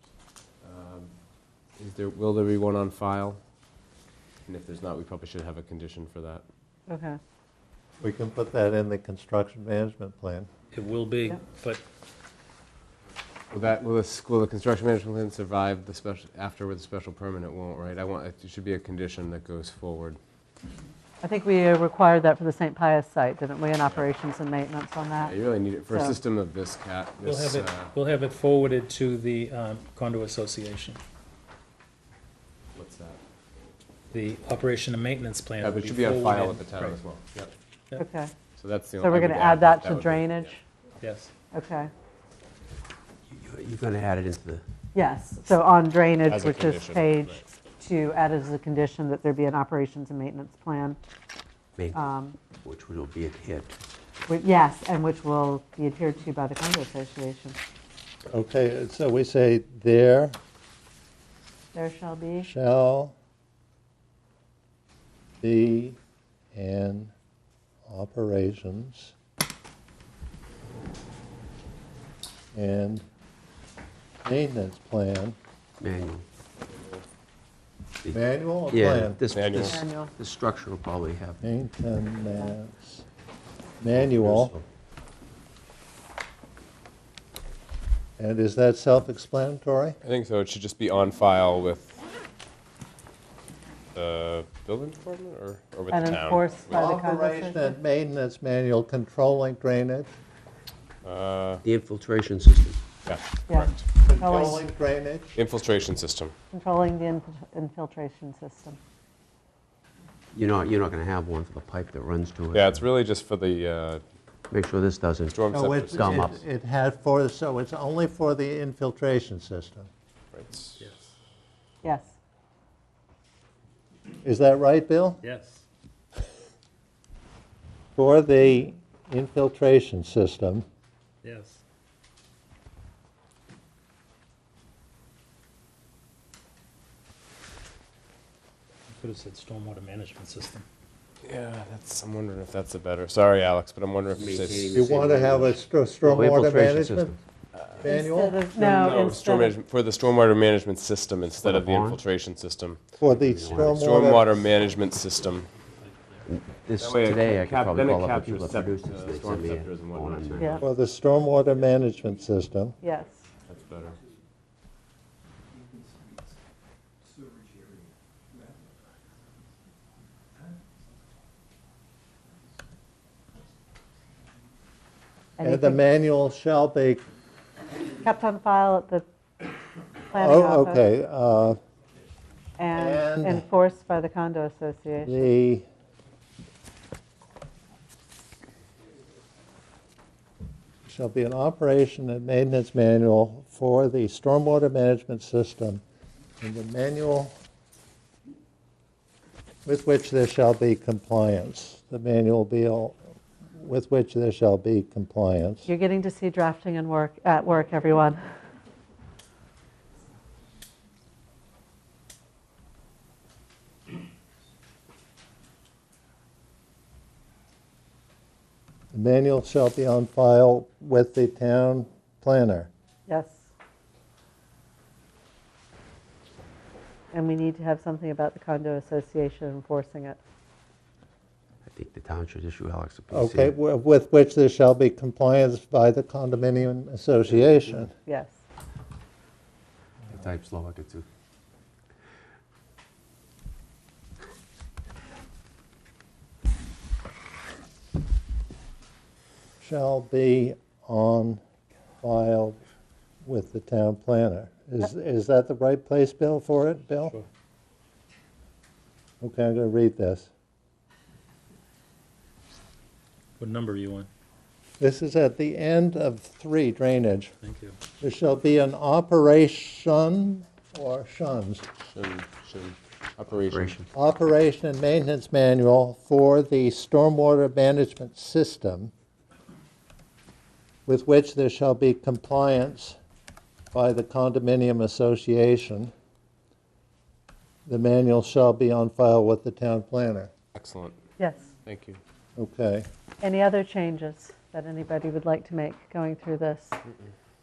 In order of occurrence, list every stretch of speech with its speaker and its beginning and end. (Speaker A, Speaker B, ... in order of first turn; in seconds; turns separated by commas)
Speaker A: 0.6-1.1, Speaker A: 1.8-3.4, Speaker A: 4.5-6.4, Speaker B: 6.9-7.2, Speaker C: 8.0-10.5, Speaker D: 10.7-11.8, Speaker A: 13.5-20.2, Speaker B: 21.2-25.4, Speaker A: 25.2-27.9, Speaker B: 25.9-26.2, Speaker D: 27.2-31.0, Speaker A: 32.7-33.2, Speaker D: 34.1-37.0, Speaker A: 35.6-37.5, Speaker B: 38.0-38.3, Speaker A: 38.6-40.5, Speaker B: 39.0-40.6, Speaker D: 41.0-41.3, Speaker B: 41.5-41.9, Speaker E: 43.3-44.6, Speaker B: 44.9-51.0, Speaker A: 46.3-47.5, Speaker E: 51.8-52.0, Speaker B: 51.9-52.4, Speaker E: 52.6-53.7, Speaker B: 54.3-57.6, Speaker C: 58.3-60.4, Speaker B: 61.7-62.5, Speaker C: 62.4-63.1, Speaker C: 65.4-66.0, Speaker C: 66.5-67.1, Speaker C: 67.9-69.1, Speaker C: 72.5-73.0, Speaker C: 74.2-75.4, Speaker E: 75.8-76.2, Speaker E: 78.0-81.4, Speaker C: 78.1-79.2, Speaker A: 79.3-79.8, Speaker B: 79.6-80.1, Speaker C: 81.4-83.0, Speaker C: 83.8-84.5, Speaker E: 83.9-84.7, Speaker C: 88.2-90.0, Speaker A: 90.0-92.0, Speaker A: 93.9-96.6, Speaker B: 95.9-97.8, Speaker C: 96.7-100.1, Speaker A: 101.0-101.6, Speaker E: 101.6-102.8, Speaker A: 103.0-103.9, Speaker B: 103.5-104.6, Speaker C: 104.0-105.3, Speaker A: 105.3-106.3, Speaker B: 106.5-108.8, Speaker E: 110.3-112.9, Speaker A: 112.5-114.0, Speaker E: 114.5-116.4, Speaker A: 115.3-116.2, Speaker C: 115.5-119.9, Speaker A: 120.3-120.8, Speaker D: 120.8-121.1, Speaker B: 121.8-122.1, Speaker C: 124.2-125.2, Speaker D: 125.2-125.6, Speaker C: 128.0-130.6, Speaker D: 131.2-131.6, Speaker D: 138.9-140.6, Speaker A: 141.2-145.0, Speaker E: 144.1-147.2, Speaker C: 144.7-147.1, Speaker A: 147.6-147.8, Speaker C: 147.7-149.0, Speaker B: 147.8-149.5, Speaker A: 148.6-152.8, Speaker E: 151.4-152.0, Speaker C: 153.0-154.4, Speaker E: 153.2-153.8, Speaker A: 153.5-155.5, Speaker E: 156.3-160.6, Speaker A: 156.8-160.7, Speaker C: 160.6-162.8, Speaker B: 162.8-163.2, Speaker A: 163.5-164.0, Speaker B: 175.4-175.8, Speaker C: 175.4-177.1, Speaker B: 178.0-179.1, Speaker B: 180.1-180.9, Speaker C: 180.1-181.6, Speaker B: 182.6-185.3, Speaker C: 182.7-183.4, Speaker C: 185.0-185.7, Speaker C: 190.8-195.8, Speaker C: 196.4-197.3, Speaker C: 199.7-203.1, Speaker C: 203.6-205.7, Speaker B: 205.7-208.2, Speaker C: 218.9-222.7, Speaker B: 223.1-223.5, Speaker B: 227.1-230.2, Speaker E: 231.7-233.5, Speaker C: 233.1-237.9, Speaker B: 238.1-238.4, Speaker E: 240.1-241.1, Speaker C: 249.6-251.4, Speaker C: 252.0-252.6, Speaker C: 253.2-257.1, Speaker C: 259.2-260.3, Speaker D: 263.4-264.1, Speaker C: 264.8-267.3, Speaker D: 267.4-267.8, Speaker C: 268.0-271.7, Speaker A: 271.8-273.8, Speaker E: 273.4-273.9, Speaker C: 273.9-278.9, Speaker C: 280.9-283.0, Speaker C: 283.7-285.9, Speaker C: 287.6-290.3, Speaker A: 290.5-291.0, Speaker B: 291.2-291.5, Speaker A: 291.6-292.0, Speaker C: 292.4-292.9, Speaker B: 293.2-296.8